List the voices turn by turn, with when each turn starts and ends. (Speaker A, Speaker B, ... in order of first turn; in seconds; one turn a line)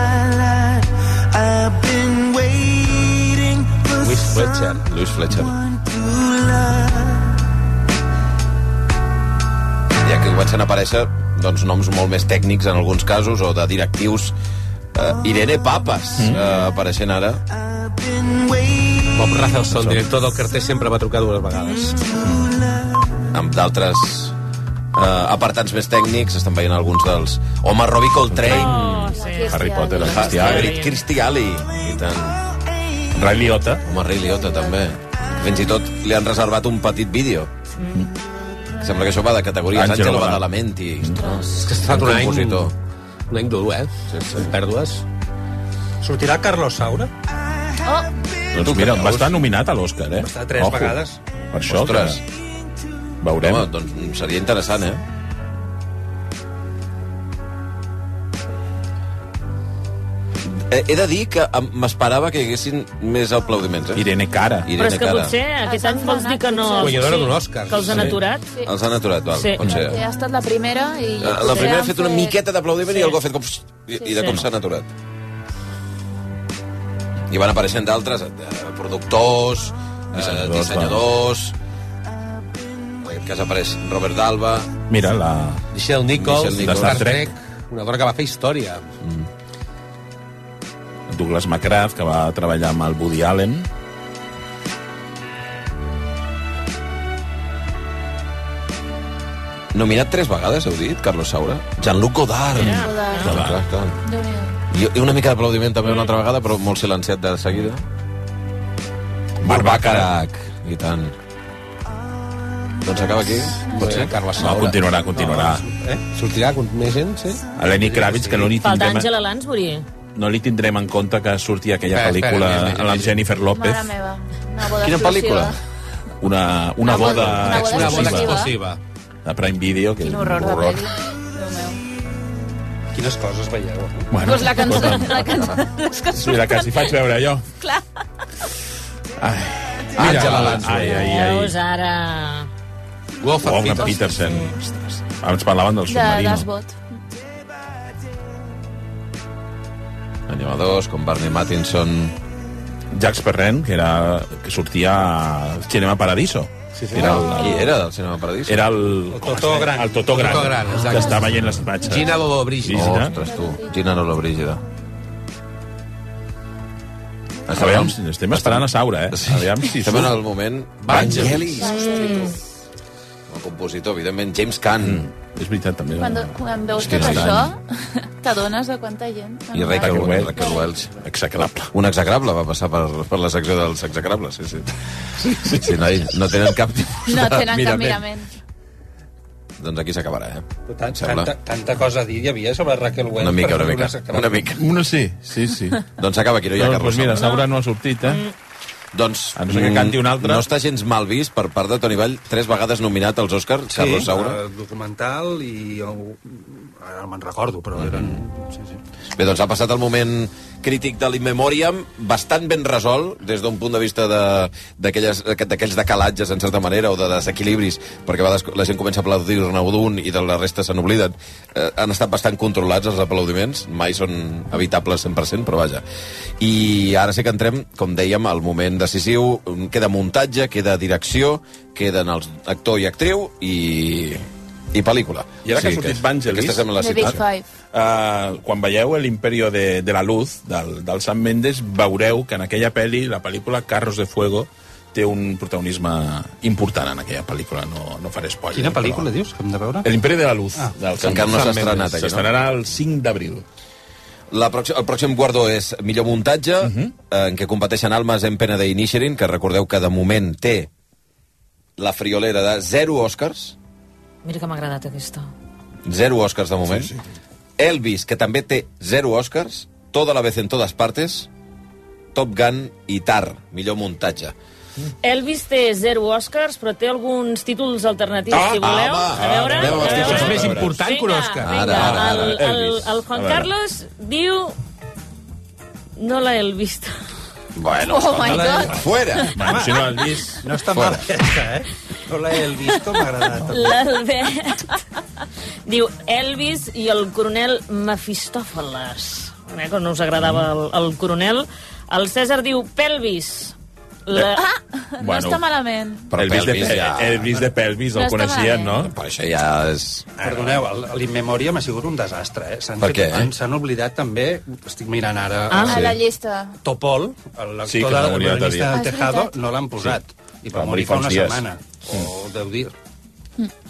Speaker A: 4.0-4.8
Speaker B: 4.8-5.6
Speaker B: 10.0-14.3
Speaker B: 14.9-17.4
Speaker C: 16.2-16.4
Speaker A: 19.1-22.0
Speaker C: 19.7-20.0
Speaker D: 21.7-22.0
Speaker C: 22.2-22.5
Speaker B: 23.3-24.3
Speaker B: 24.9-29.1
Speaker C: 28.3-28.8
Speaker D: 28.5-29.6
Speaker E: 28.6-30.7
Speaker C: 29.5-30.7
Speaker B: 29.9-32.4
Speaker D: 30.2-31.0
Speaker C: 33.1-33.8
Speaker B: 33.8-37.5
Speaker E: 34.2-34.7
Speaker B: 38.8-42.7
Speaker C: 39.7-40.5
Speaker E: 41.2-41.8
Speaker A: 41.6-42.7
Speaker A: 43.3-45.0
Speaker B: 44.1-44.5
Speaker F: 46.0-47.1
Speaker E: 47.8-48.1
Speaker B: 48.5-49.4
Speaker C: 48.5-52.2
Speaker F: 50.1-51.2
Speaker B: 51.7-52.2
Speaker C: 53.2-53.7
Speaker B: 53.4-55.0
Speaker B: 60.5-64.1
Speaker C: 63.9-64.7
Speaker B: 64.6-65.3
Speaker D: 64.8-68.5
Speaker E: 65.6-67.3
Speaker A: 66.8-68.1
Speaker E: 68.4-68.7
Speaker B: 68.6-70.0
Speaker D: 69.3-69.8
Speaker E: 69.6-72.3
Speaker B: 71.2-74.9
Speaker E: 72.9-73.2
Speaker D: 74.1-74.4
Speaker B: 77.3-81.5
Speaker C: 80.1-81.0
Speaker B: 83.0-84.7
Speaker C: 84.9-85.6
Speaker A: 85.7-88.9
Speaker B: 86.2-87.1
Speaker C: 86.5-87.3
Speaker B: 89.0-89.3
Speaker C: 91.1-93.7
Speaker B: 99.7-104.0
Speaker D: 102.6-103.3
Speaker E: 102.7-103.3
Speaker C: 103.2-103.6
Speaker E: 104.0-104.6
Speaker B: 104.7-107.8
Speaker B: 109.4-111.1
Speaker C: 109.4-110.2
Speaker B: 112.8-114.4
Speaker A: 113.7-114.8
Speaker C: 114.4-115.7
Speaker F: 115.1-116.0
Speaker A: 116.1-117.4
Speaker C: 117.6-119.1
Speaker F: 117.6-118.5
Speaker D: 118.6-119.8
Speaker C: 120.1-123.9
Speaker A: 121.9-123.2
Speaker E: 123.5-125.6
Speaker B: 124.8-125.5
Speaker C: 126.2-128.4
Speaker E: 126.8-128.5
Speaker A: 127.5-128.8
Speaker C: 129.2-130.9
Speaker E: 130.0-131.8
Speaker F: 132.9-134.1
Speaker C: 134.1-135.6
Speaker E: 134.2-137.0
Speaker C: 136.1-137.4
Speaker E: 137.6-137.9
Speaker C: 139.2-141.5
Speaker B: 139.9-141.0
Speaker D: 140.8-142.5
Speaker A: 143.2-144.0
Speaker C: 143.4-146.5
Speaker E: 143.4-144.6
Speaker D: 144.2-144.5
Speaker E: 145.8-146.8
Speaker B: 150.3-152.1
Speaker C: 152.9-157.6
Speaker A: 156.8-157.2
Speaker B: 156.9-158.6
Speaker E: 157.2-157.7
Speaker C: 158.5-163.2
Speaker F: 159.1-160.5
Speaker A: 160.1-163.0
Speaker E: 160.7-162.3
Speaker B: 162.7-164.6
Speaker E: 163.0-164.0
Speaker B: 167.5-171.7
Speaker C: 167.5-170.2
Speaker A: 170.8-171.6
Speaker C: 170.9-171.6
Speaker E: 171.0-172.4
Speaker D: 171.6-172.4
Speaker B: 173.3-175.0
Speaker C: 174.8-177.5
Speaker E: 176.0-180.8
Speaker B: 176.8-177.4
Speaker B: 179.5-180.9
Speaker C: 179.8-181.7
Speaker B: 181.7-184.7
Speaker B: 185.3-188.0
Speaker E: 187.0-188.3
Speaker B: 189.6-191.3
Speaker F: 190.7-194.4
Speaker B: 193.2-194.6
Speaker C: 194.4-195.8
Speaker B: 196.0-197.3
Speaker C: 196.6-198.2
Speaker D: 198.0-198.3
Speaker B: 198.9-204.4
Speaker C: 199.3-200.5
Speaker F: 203.7-208.8
Speaker B: 207.8-208.2
Speaker B: 209.2-225.8
Speaker B: 226.4-237.2
Speaker C: 235.4-237.2
Speaker E: 236.7-237.5
Speaker C: 237.7-249.1
Speaker F: 248.5-249.9
Speaker C: 249.8-253.4
Speaker B: 250.9-252.3
Speaker B: 254.3-260.7
Speaker C: 256.6-256.9
Speaker B: 261.8-263.6
Speaker D: 264.2-265.3
Speaker B: 265.9-266.9
Speaker B: 267.6-271.3
Speaker B: 272.1-274.3
Speaker D: 275.0-284.5
Speaker B: 278.3-280.7
Speaker C: 279.1-280.8
Speaker A: 279.9-281.9
Speaker B: 281.4-282.4
Speaker C: 281.8-283.5
Speaker D: 286.0-286.9
Speaker B: 287.6-289.4
Speaker E: 287.9-289.4
Speaker C: 288.3-290.9
Speaker F: 288.3-288.6
Speaker F: 289.4-293.8
Speaker B: 290.7-291.0
Speaker D: 293.5-294.8
Speaker D: 295.6-303.5
Speaker C: 300.2-300.5
Speaker D: 304.1-304.4
Speaker E: 304.3-306.1
Speaker C: 305.0-305.4
Speaker B: 306.1-307.4
Speaker C: 306.1-308.9
Speaker E: 307.9-308.9
Speaker B: 308.8-310.5
Speaker F: 310.2-315.7
Speaker B: 312.8-313.3
Speaker D: 315.5-315.8
Speaker E: 315.6-316.6
Speaker B: 315.7-315.9
Speaker F: 316.6-322.7
Speaker C: 317.6-318.8
Speaker E: 318.7-319.4
Speaker C: 320.5-322.1